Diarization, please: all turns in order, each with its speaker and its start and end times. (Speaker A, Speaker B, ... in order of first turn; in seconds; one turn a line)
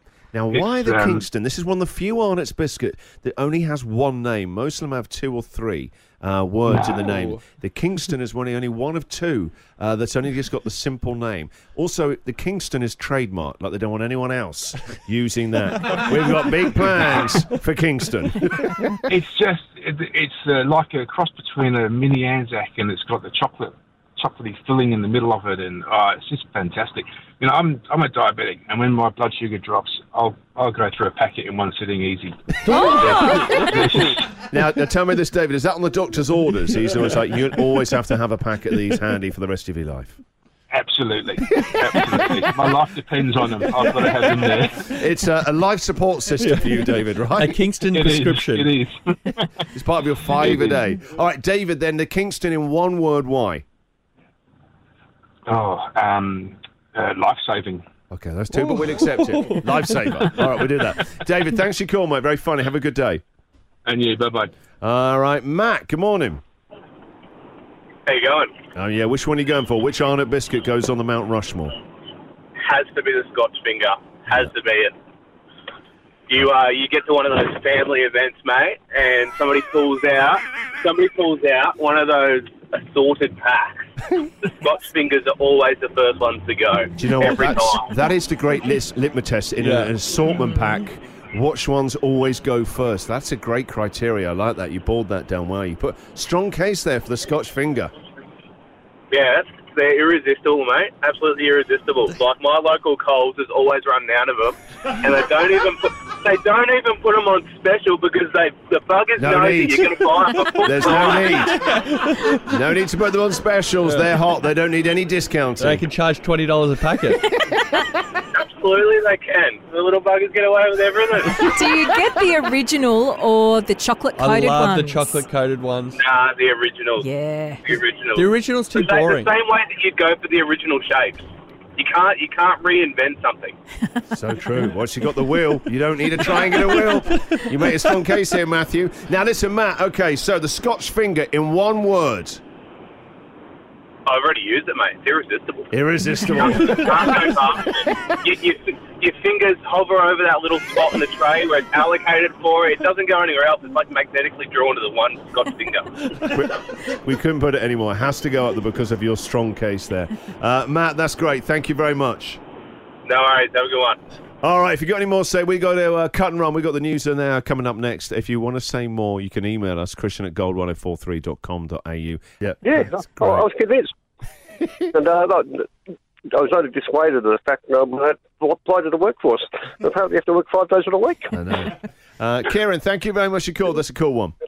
Speaker A: 0.3-19.0
Speaker B: 0.5-1.2
Speaker B: 6.7-7.3
Speaker B: 19.1-34.3
Speaker C: 32.7-33.6
Speaker A: 34.5-40.2
Speaker B: 40.7-44.9
Speaker A: 44.7-47.6
Speaker D: 46.4-48.7
Speaker B: 47.9-49.5
Speaker A: 49.7-53.6
Speaker B: 50.4-50.8
Speaker B: 55.5-57.8
Speaker A: 58.1-63.2
Speaker D: 58.5-60.1
Speaker B: 63.9-64.5
Speaker A: 64.8-66.4
Speaker E: 68.1-68.5
Speaker A: 68.7-71.7
Speaker E: 72.6-74.9
Speaker E: 76.3-83.8
Speaker E: 84.4-87.9
Speaker A: 87.0-97.9
Speaker D: 89.6-89.9
Speaker E: 99.1-111.5
Speaker A: 109.2-110.0
Speaker A: 110.5-111.5
Speaker D: 111.1-112.2
Speaker A: 112.4-115.8
Speaker D: 113.8-114.1
Speaker D: 115.6-117.3
Speaker E: 118.3-121.5
Speaker C: 121.4-125.2
Speaker D: 124.2-126.0
Speaker E: 125.9-127.0
Speaker C: 127.0-127.6
Speaker E: 127.6-131.2
Speaker D: 128.1-129.3
Speaker E: 131.8-133.6
Speaker A: 134.1-142.4
Speaker E: 144.1-145.7
Speaker A: 145.7-147.2
Speaker E: 146.3-156.1
Speaker A: 156.2-162.4
Speaker E: 163.1-164.0
Speaker A: 164.4-173.5
Speaker F: 172.6-173.9
Speaker F: 174.9-175.7
Speaker F: 176.3-181.3
Speaker A: 181.3-184.3